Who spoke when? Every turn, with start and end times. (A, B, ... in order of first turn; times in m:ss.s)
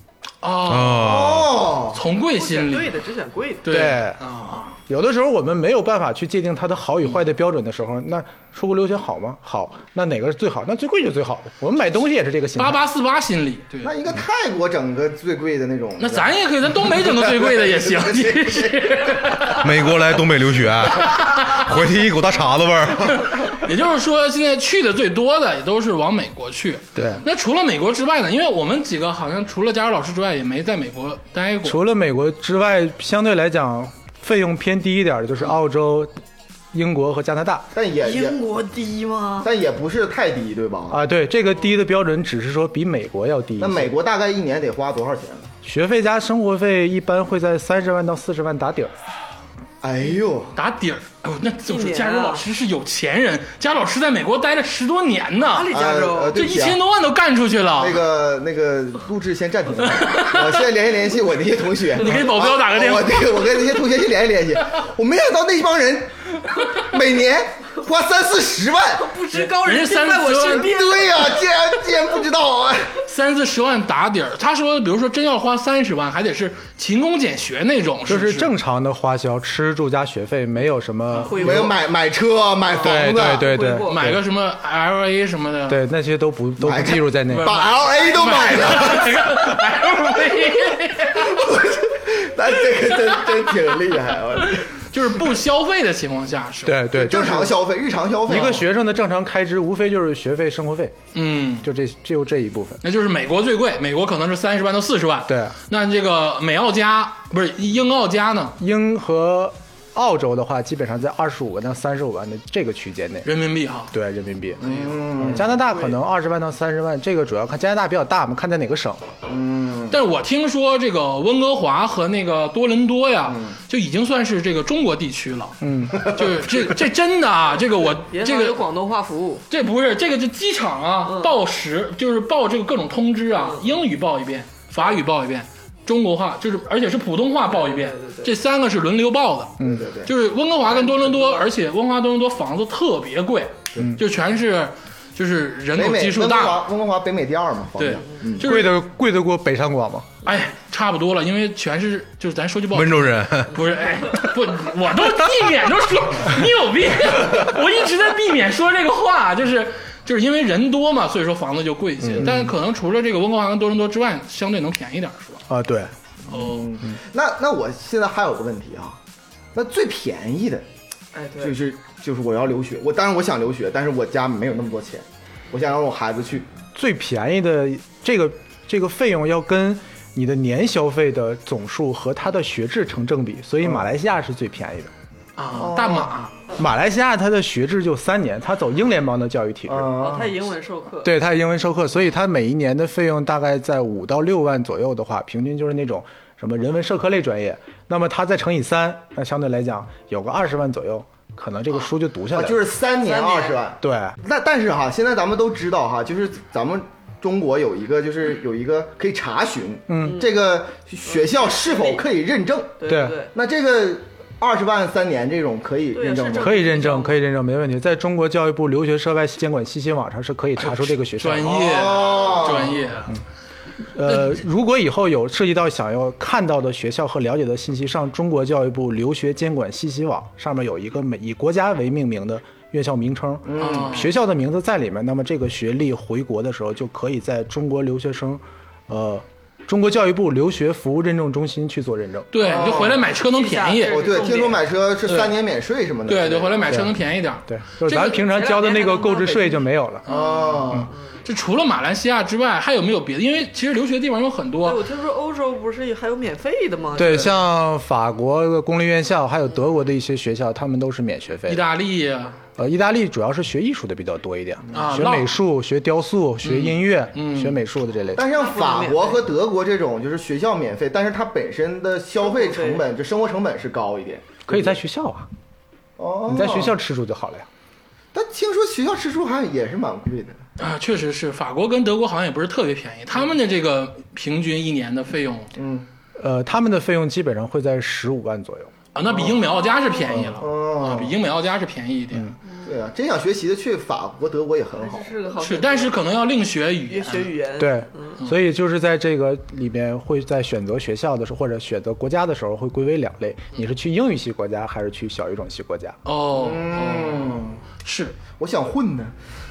0:00.4-0:01.3 A
0:00.6-0:01.6 B
0:00.9-0:02.0 C
0:01.9-0:02.9 A
0:02.3-0:03.6 D
0:03.6-0:04.7 A
0:03.7-0:04.2 E
0:04.7-0:12.8 E
0:12.6-0:13.9 A
0:13.8-0:19.5 C
0:16.0-0:19.7 A
0:19.5-0:23.3 B
0:21.0-0:21.6 A
0:23.1-0:31.8 A
0:26.9-0:27.2 E
0:31.6-0:36.1 E
0:36.7-0:37.7 E
0:37.7-0:38.4 C
0:38.0-0:39.5 D
0:39.4-0:41.0 C
0:40.9-0:44.0 E
0:43.6-0:45.5 C
0:45.6-0:48.9 E
0:49.8-0:50.5 C
0:50.5-0:55.7 A
0:51.7-0:52.4 D
0:55.4-0:56.4 D
0:55.7-0:56.8 C
0:56.3-0:58.0 A
0:57.8-1:09.1 C
1:00.1-1:00.4 A
1:02.0-1:03.4 A
1:09.0-1:11.4 D
1:09.3-1:10.7 A
1:10.5-1:13.0 C
1:13.1-1:18.5 A
1:18.0-1:21.7 E
1:21.2-1:21.7 D
1:21.3-1:23.5 C
1:22.7-1:24.0 D
1:22.8-1:24.2 E
1:23.9-1:25.8 A
1:25.7-1:27.6 E
1:26.6-1:29.6 C
1:27.3-1:31.3 A
1:31.0-1:34.7 C
1:34.9-1:36.8 A
1:36.6-1:37.6 E
1:36.9-1:38.6 C
1:38.2-1:41.0 E
1:41.1-1:41.7 A
1:41.6-1:42.8 E
1:42.8-1:48.6 A
1:45.3-1:45.6 E
1:48.6-1:53.3 E
1:53.2-1:53.9 A
1:53.9-1:59.1 E
1:54.6-1:55.0 A
1:54.6-1:55.6 C
1:59.3-2:00.0 C
1:59.9-2:08.6 A
2:03.3-2:03.5 C
2:05.6-2:06.1 E
2:08.0-2:09.4 D
2:09.5-2:26.6 A
2:11.0-2:11.4 D
2:13.4-2:13.6 D
2:17.5-2:18.3 D
2:19.6-2:19.9 E
2:19.6-2:20.1 C
2:20.8-2:21.3 D
2:25.7-2:28.5 C
2:27.8-2:28.8 A
2:28.4-2:30.1 E
2:30.2-2:45.4 A
2:32.7-2:33.5 B
2:42.0-2:42.5 E
2:45.5-2:45.9 E
2:46.3-2:49.0 C
2:46.3-2:46.7 A
2:49.5-2:50.6 C
2:51.1-2:51.6 D
2:51.4-2:56.5 C
2:56.7-3:04.9 E
3:03.6-3:03.9 C
3:05.4-3:06.3 A
3:05.5-3:06.1 C
3:06.5-3:09.9 E
3:09.7-3:10.5 C
3:10.0-3:11.2 D
3:11.0-3:22.7 E
3:22.3-3:32.8 C
3:23.0-3:23.6 D
3:23.8-3:24.2 E
3:29.9-3:30.2 E
3:30.0-3:30.3 D
3:31.0-3:32.0 D
3:32.8-3:33.3 D
3:32.8-3:33.2 E
3:33.3-3:36.7 C
3:35.9-3:37.2 D
3:36.4-3:41.8 E
3:40.6-3:43.2 A
3:41.4-3:42.8 C
3:43.9-4:02.3 E
3:53.4-3:54.0 C
3:53.6-3:54.1 A
4:02.3-4:05.3 A
4:02.4-4:03.0 C
4:02.5-4:04.6 D
4:03.8-4:06.7 C
4:06.1-4:08.2 A
4:07.4-4:10.1 E
4:08.1-4:09.6 D
4:10.0-4:14.8 A
4:10.1-4:10.9 C
4:14.6-4:17.4 D
4:16.9-4:21.6 E
4:21.5-4:22.4 A
4:22.6-4:28.3 E
4:24.7-4:25.3 A
4:26.4-4:27.6 A
4:28.1-4:34.8 C
4:28.2-4:29.2 D
4:32.2-4:32.8 D
4:34.5-4:35.3 E
4:36.0-4:36.7 C
4:36.3-4:37.5 E
4:38.1-4:40.4 C
4:40.6-4:45.5 A
4:45.5-4:45.9 C
4:46.2-4:48.7 E
4:48.9-4:52.3 A
4:49.1-4:49.3 C
4:50.3-4:51.2 C
4:52.6-4:55.1 C
4:54.8-4:56.1 D
4:55.4-4:57.3 A
4:56.8-4:58.1 D
4:57.6-5:06.0 E
5:06.0-5:08.2 A
5:06.3-5:07.6 C
5:08.3-5:09.1 C